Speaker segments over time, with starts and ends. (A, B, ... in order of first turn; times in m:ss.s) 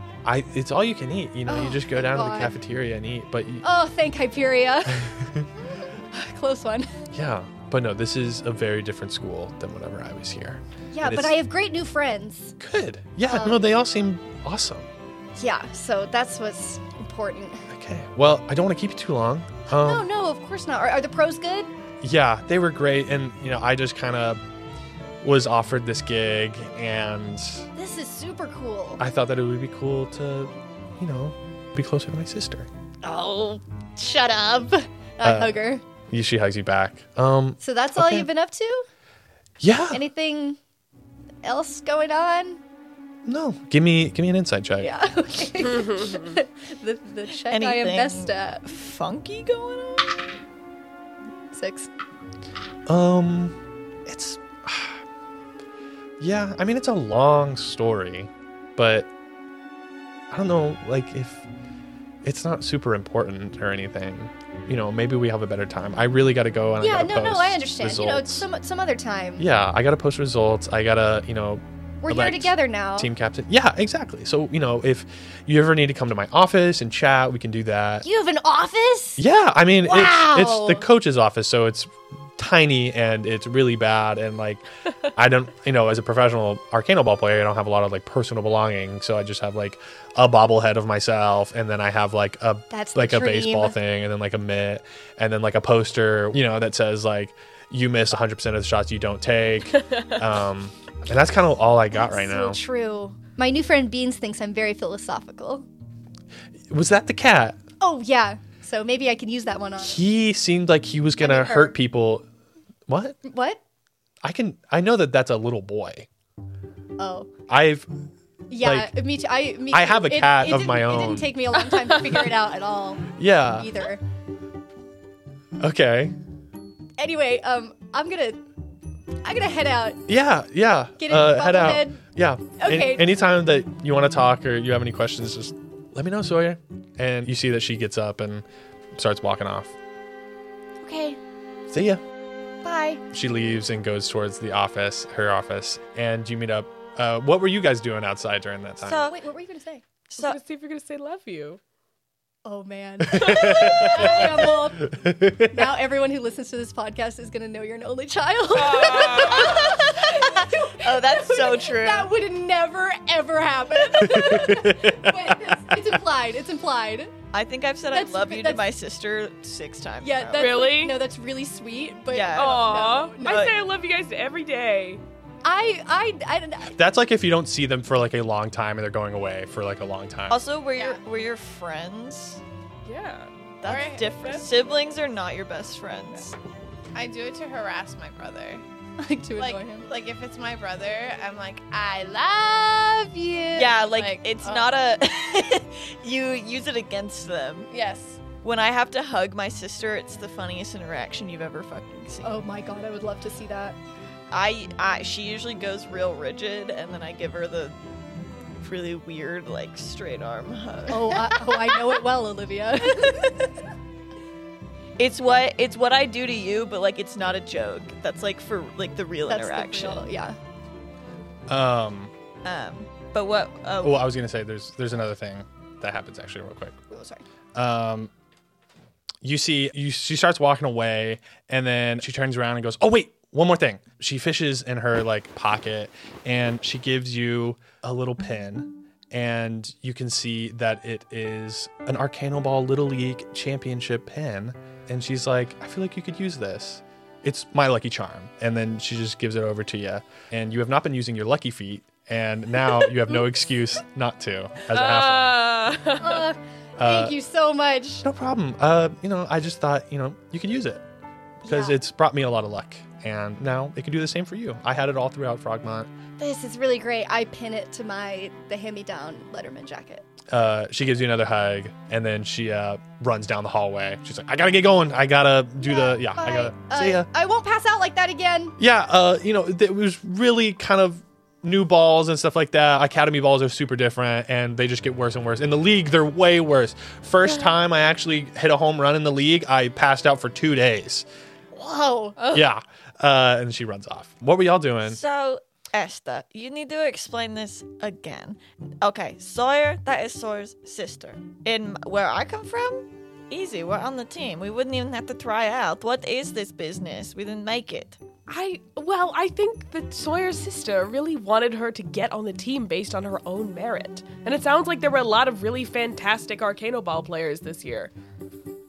0:00.2-0:03.7 A
0:01.5-0:02.6 B
0:03.6-0:05.1 B
0:05.0-0:05.4 A
0:06.1-0:06.9 B
0:07.1-0:11.4 A
0:10.9-0:12.6 B
0:12.6-0:14.9 A
0:13.2-0:13.6 B
0:15.4-0:17.7 B
0:17.7-0:20.1 A
0:19.8-0:21.7 B
0:22.0-0:24.4 A
0:25.2-0:27.7 A
0:27.8-0:29.0 B
0:29.0-0:32.7 A
0:33.0-0:35.8 B
0:35.2-0:38.3 A
0:37.6-0:38.9 B
0:39.6-0:40.0 A
0:39.9-0:40.6 B
0:41.4-0:42.6 B
0:43.3-0:44.9 A
0:44.8-0:48.6 B
0:45.6-0:46.4 C
0:47.4-0:50.4 D
0:51.5-0:51.9 B
0:52.9-0:55.0 A
0:56.2-0:59.1 A
1:00.3-1:01.5 A
1:02.2-1:08.5 A
1:06.8-1:09.5 B
1:09.4-1:18.1 A
1:12.0-1:13.1 B
1:18.0-1:19.2 B
1:19.2-1:42.6 A
1:19.8-1:20.8 B
1:32.7-1:33.8 B
1:41.9-1:45.7 B
1:46.7-1:47.6 A
1:47.8-1:50.0 B
1:49.8-1:52.2 A
1:51.2-1:51.7 B
1:52.9-1:53.2 A
1:53.2-1:53.6 B
1:54.2-1:56.1 A
1:57.0-1:57.3 B
1:57.5-1:57.9 A
1:58.5-2:04.0 B
1:58.6-1:58.9 A
1:59.7-2:01.4 A
2:03.2-2:03.7 A
2:05.6-2:06.2 A
2:07.0-2:08.4 B
2:09.2-2:10.0 B
2:10.1-2:18.4 A
2:11.0-2:12.0 B
2:12.6-2:13.1 B
2:19.0-2:19.7 A
2:20.8-2:21.2 B
2:21.7-2:22.0 A
2:22.6-2:23.0 B
2:23.1-2:29.1 A
2:28.8-2:29.2 D
2:29.1-2:29.8 B
2:30.1-2:30.4 D
2:30.2-2:31.6 C
2:32.4-2:47.1 B
2:33.0-2:35.7 A
2:38.5-2:39.8 C
2:39.0-2:40.2 D
2:40.8-2:42.1 D
2:44.0-2:45.8 A
2:47.3-2:50.6 D
2:47.9-2:48.6 B
2:50.0-2:53.5 B
2:50.4-2:51.0 C
2:52.1-2:53.6 D
2:52.4-2:55.0 C
2:55.4-2:56.7 B
2:56.7-3:00.4 A
3:00.3-3:02.4 D
3:02.8-3:03.3 C
3:03.6-3:06.4 D
3:03.6-3:04.1 E
3:06.9-3:08.6 E
3:09.0-3:09.9 B
3:09.4-3:14.7 E
3:13.6-3:17.7 D
3:17.7-3:18.2 E
3:18.4-3:22.4 D
3:22.2-3:23.8 B
3:24.3-3:27.8 D
3:28.6-3:31.9 D
3:30.9-3:33.5 B
3:35.0-3:40.1 D
3:39.3-3:40.4 B
3:41.5-3:42.1 A
3:42.4-3:44.1 D
3:43.8-3:46.8 A
3:46.9-3:47.2 B
3:47.6-3:48.1 A
3:49.2-4:15.5 A
4:14.7-4:16.2 C
4:16.0-4:18.0 B
4:16.8-4:17.2 A
4:18.0-4:20.8 A
4:21.4-4:25.9 A
4:21.5-4:21.8 B
4:26.2-4:30.0 B
4:30.3-4:37.1 A
4:35.6-4:38.6 B
4:38.6-4:51.1 A
4:51.5-4:52.3 B
4:52.3-4:55.0 A
4:54.8-5:08.0 D
5:08.3-5:17.9 C